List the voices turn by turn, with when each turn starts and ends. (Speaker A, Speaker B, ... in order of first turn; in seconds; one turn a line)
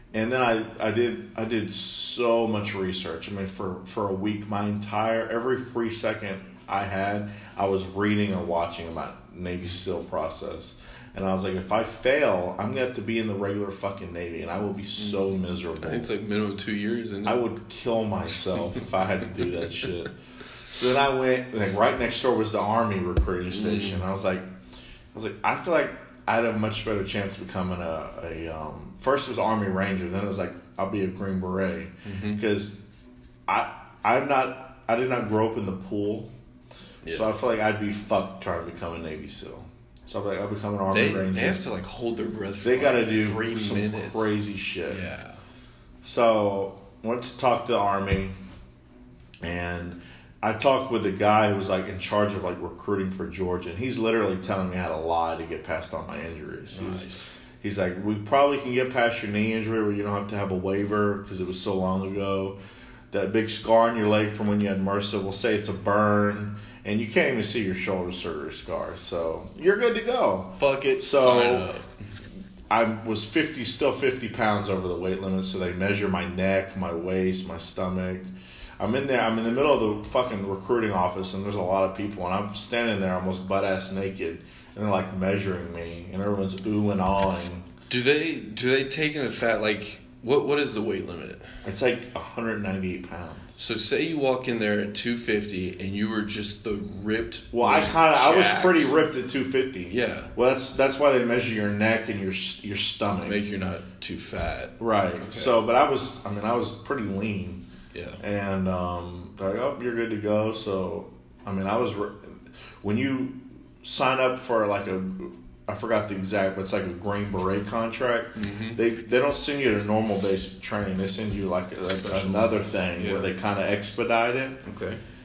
Speaker A: 0.1-16.1
Speaker B: 15.0-17.4
Speaker A: 17.2-20.1
Speaker A: 20.7-24.5
Speaker B: 23.5-24.0
Speaker A: 25.1-32.8
Speaker B: 32.0-32.4
Speaker A: 33.5-36.3
Speaker B: 37.0-37.3
Speaker A: 37.1-41.6
Speaker B: 40.9-45.4
Speaker A: 42.6-45.0
Speaker A: 46.0-48.3
Speaker A: 49.4-62.6
Speaker B: 56.7-57.4
Speaker A: 63.1-71.7
Speaker B: 70.5-71.9
Speaker A: 72.7-87.7
Speaker B: 87.9-91.6
Speaker A: 91.6-93.5
Speaker B: 93.6-99.0
Speaker A: 97.5-103.4
Speaker B: 99.9-100.3
Speaker B: 103.2-105.6
Speaker A: 104.8-107.6
Speaker B: 107.9-108.2
Speaker A: 108.2-124.6
Speaker B: 118.3-118.8
Speaker B: 121.8-123.3
Speaker B: 124.6-125.0